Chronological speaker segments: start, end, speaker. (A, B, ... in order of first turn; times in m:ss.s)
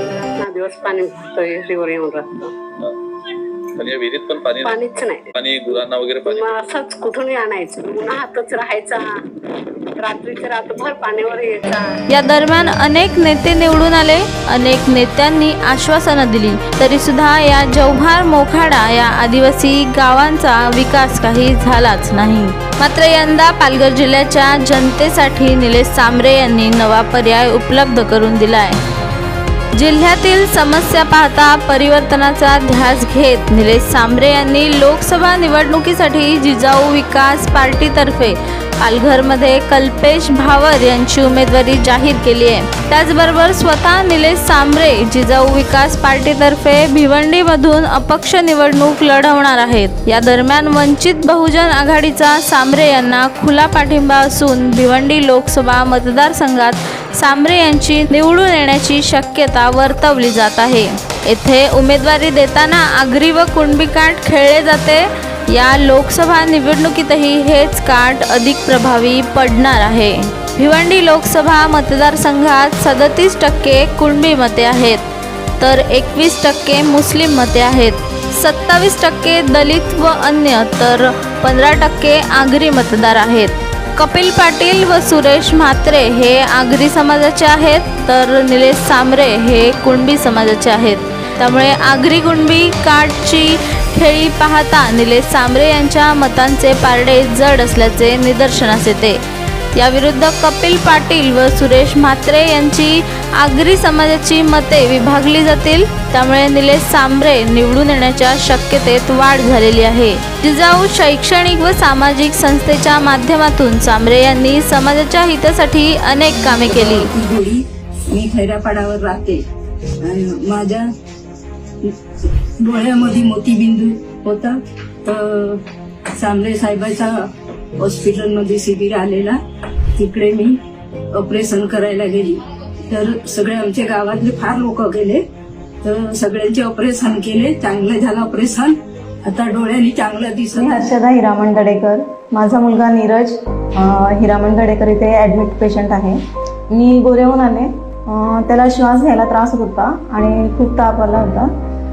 0:00.2-0:02.6 A
0:03.7-0:04.7 B
0:04.6-0:05.3 A
0:05.3-0:06.4 B
0:06.2-0:09.4 A
0:10.0-0:12.0 A
0:12.1-0:28.8 C
0:29.7-1:15.0 C
1:15.6-1:39.2 C
1:39.7-1:57.1 C
1:56.6-1:59.4 D
2:00.0-2:00.9 D
2:01.8-2:10.6 D
2:11.1-2:15.2 D
2:15.8-2:20.9 D
2:20.5-2:26.2 E
2:26.7-2:31.5 E